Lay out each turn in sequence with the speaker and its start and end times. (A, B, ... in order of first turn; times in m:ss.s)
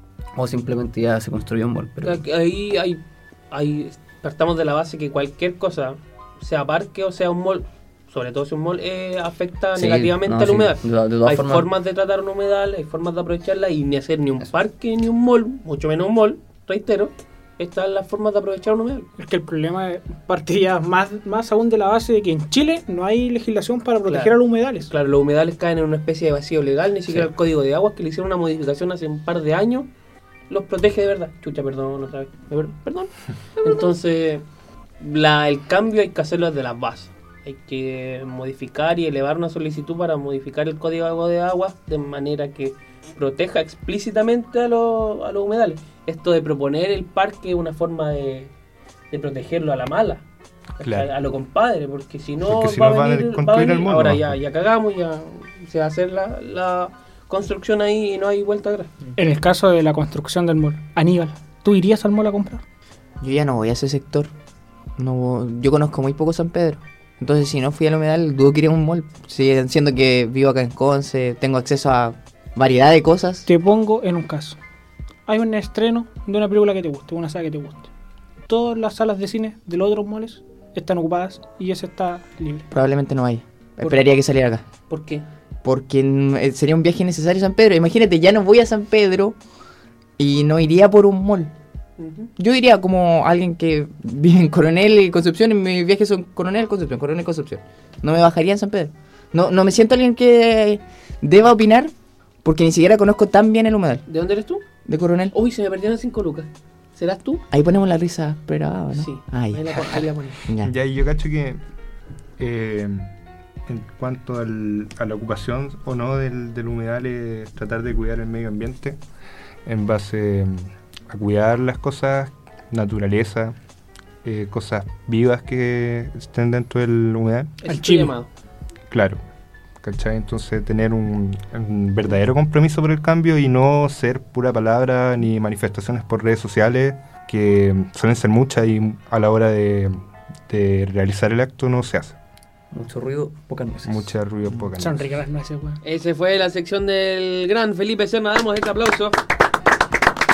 0:00.4-0:02.2 A
0:02.0-0:19.1 B
0:09.8-0:11.7 A
0:19.2-0:24.9 C
0:24.0-0:29.9 B
0:30.5-0:34.4 B
0:35.0-0:48.5 B
0:49.1-0:50.2 B
0:50.8-0:58.9 B
0:50.8-0:51.1 D
0:52.4-0:54.4 D
0:59.2-1:02.6 C
1:03.2-1:04.3 E
1:05.0-1:13.5 E
1:13.5-1:14.6 C
1:15.3-1:17.9 C
1:18.5-1:22.7 C
1:22.7-1:24.6 E
1:23.8-1:24.0 B
1:24.9-1:25.2 B
1:25.6-1:29.4 E
1:30.2-1:31.5 E
1:32.0-1:32.3 B
1:32.4-1:41.9 E
1:42.4-1:44.0 E
1:44.1-1:44.6 B
1:44.8-1:45.3 E
1:45.3-1:47.4 B
1:47.5-1:50.7 E
1:48.9-1:50.5 B
1:50.6-1:51.6 D
1:52.4-1:53.1 D
1:53.6-1:59.0 D
1:59.6-2:03.5 D
2:04.2-2:07.6 D
2:07.6-2:08.3 B
2:07.7-2:08.1 C
2:08.9-2:09.2 D
2:09.8-2:22.2 D
2:22.7-2:24.0 A
2:23.8-2:25.1 D
2:24.8-2:25.8 C
2:25.8-2:29.1 B